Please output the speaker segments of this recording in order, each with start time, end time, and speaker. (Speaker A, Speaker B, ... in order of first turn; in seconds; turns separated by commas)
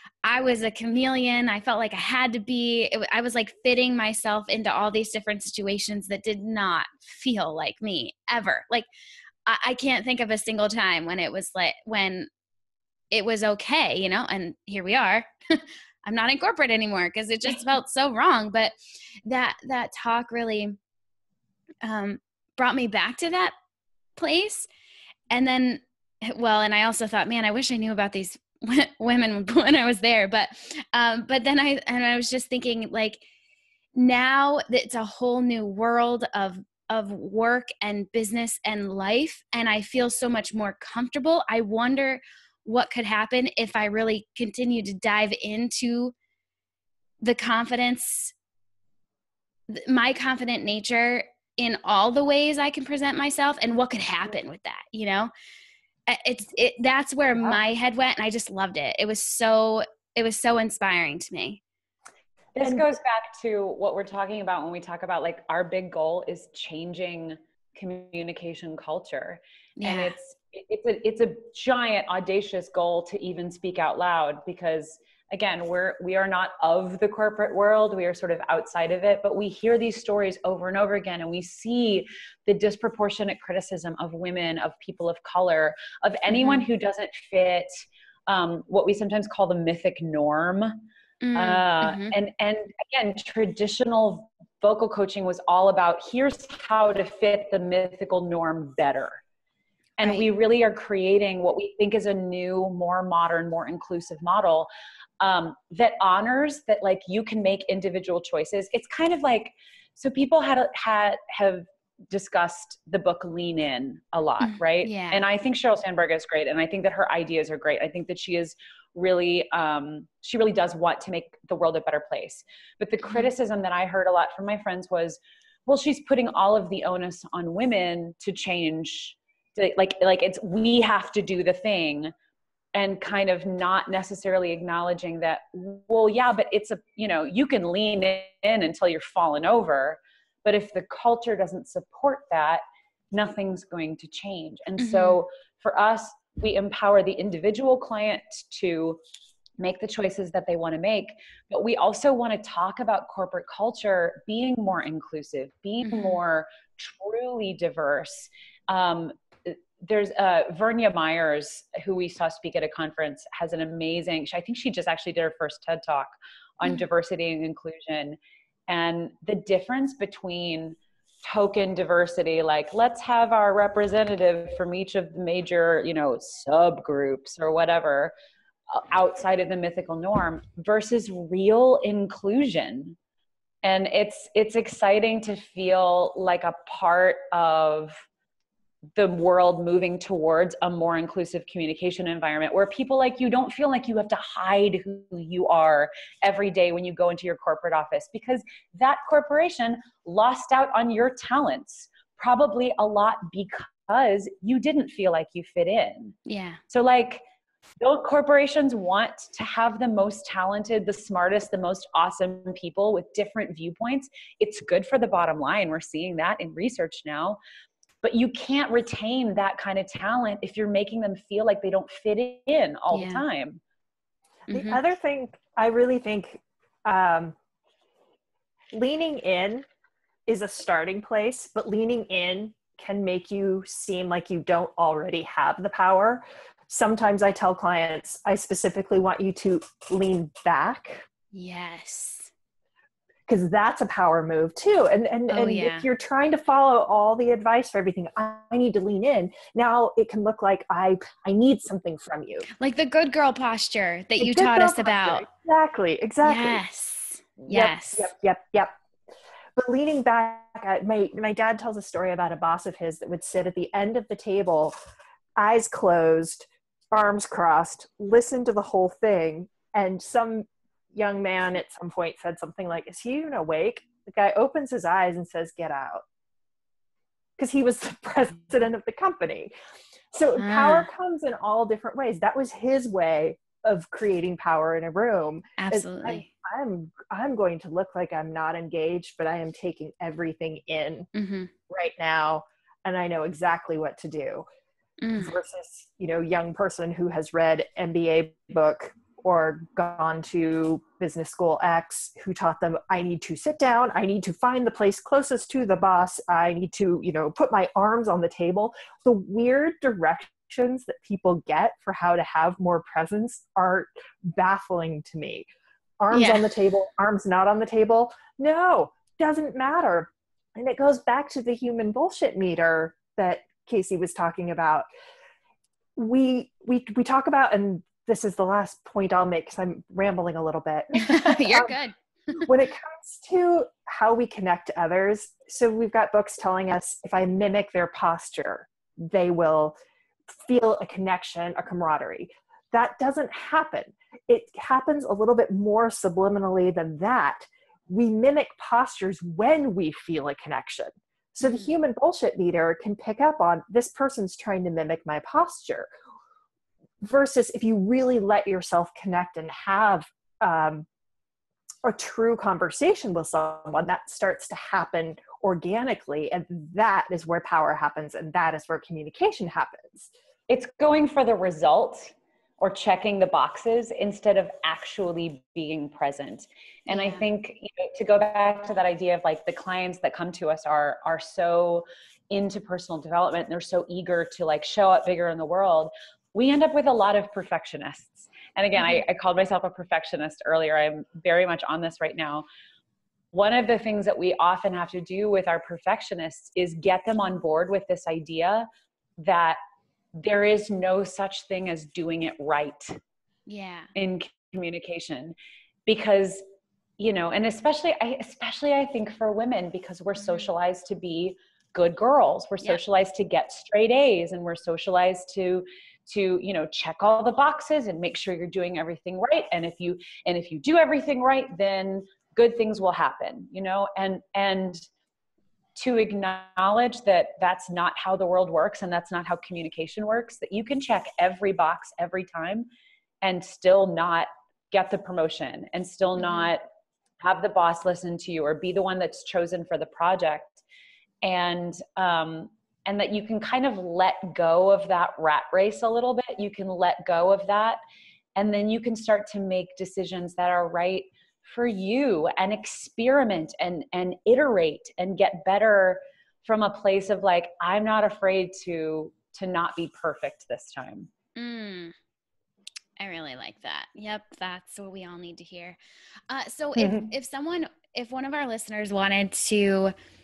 Speaker A: 0.2-8.9, Speaker A: 9.4-12.3, Speaker A: 13.1-18.7, Speaker A: 19.2-20.8, Speaker A: 21.8-23.5, Speaker A: 24.2-24.6, Speaker A: 25.3-33.2, Speaker A: 33.9-46.1, Speaker A: 47.2-48.3, Speaker A: 49.7-55.3, Speaker A: 56.1-61.6, Speaker B: 62.5-90.8, Speaker A: 69.8-70.2, Speaker A: 86.3-86.6, Speaker A: 91.2-92.1, Speaker B: 91.3-99.2, Speaker B: 100.0-104.7, Speaker B: 105.2-132.1, Speaker A: 114.4-115.2, Speaker B: 132.7-149.0, Speaker A: 144.8-145.2, Speaker B: 149.6-178.1, Speaker A: 155.8-156.2, Speaker B: 178.7-183.0, Speaker B: 183.6-188.0, Speaker B: 189.0-206.2, Speaker A: 206.2-206.6, Speaker B: 206.7-207.2, Speaker B: 207.8-217.4, Speaker B: 218.0-223.6, Speaker A: 222.9-223.2, Speaker A: 224.5-224.8, Speaker C: 224.5-227.3, Speaker C: 228.7-229.7, Speaker C: 230.3-241.0, Speaker A: 241.3-242.3, Speaker C: 243.3-252.5, Speaker A: 245.3-245.9, Speaker A: 252.6-255.2, Speaker C: 254.2-256.6, Speaker A: 256.2-258.1, Speaker C: 257.4-258.7, Speaker C: 259.6-264.7, Speaker C: 265.4-276.0, Speaker C: 277.4-279.5, Speaker C: 280.1-291.1, Speaker A: 280.4-280.9, Speaker A: 285.6-286.3, Speaker A: 291.1-291.5, Speaker C: 291.7-294.4, Speaker A: 295.0-295.4, Speaker C: 295.2-315.5, Speaker C: 316.0-324.9, Speaker A: 316.1-316.5, Speaker C: 325.9-331.7, Speaker A: 330.9-332.4, Speaker C: 332.4-339.7, Speaker C: 340.4-355.9, Speaker A: 351.4-351.7, Speaker C: 357.0-360.9, Speaker C: 361.8-370.1, Speaker B: 370.5-392.4, Speaker A: 376.9-377.3, Speaker A: 388.8-389.0, Speaker B: 393.3-399.6, Speaker B: 400.1-403.0, Speaker A: 403.5-403.9, Speaker B: 403.9-405.3, Speaker B: 405.9-406.4, Speaker B: 407.0-424.9, Speaker A: 410.2-410.5, Speaker B: 425.7-432.7, Speaker B: 433.2-436.6, Speaker A: 436.2-436.5, Speaker B: 437.2-440.6, Speaker B: 441.2-447.8, Speaker B: 448.4-461.1, Speaker A: 461.4-461.9, Speaker A: 463.0-465.8, Speaker A: 466.3-469.9, Speaker B: 466.8-467.1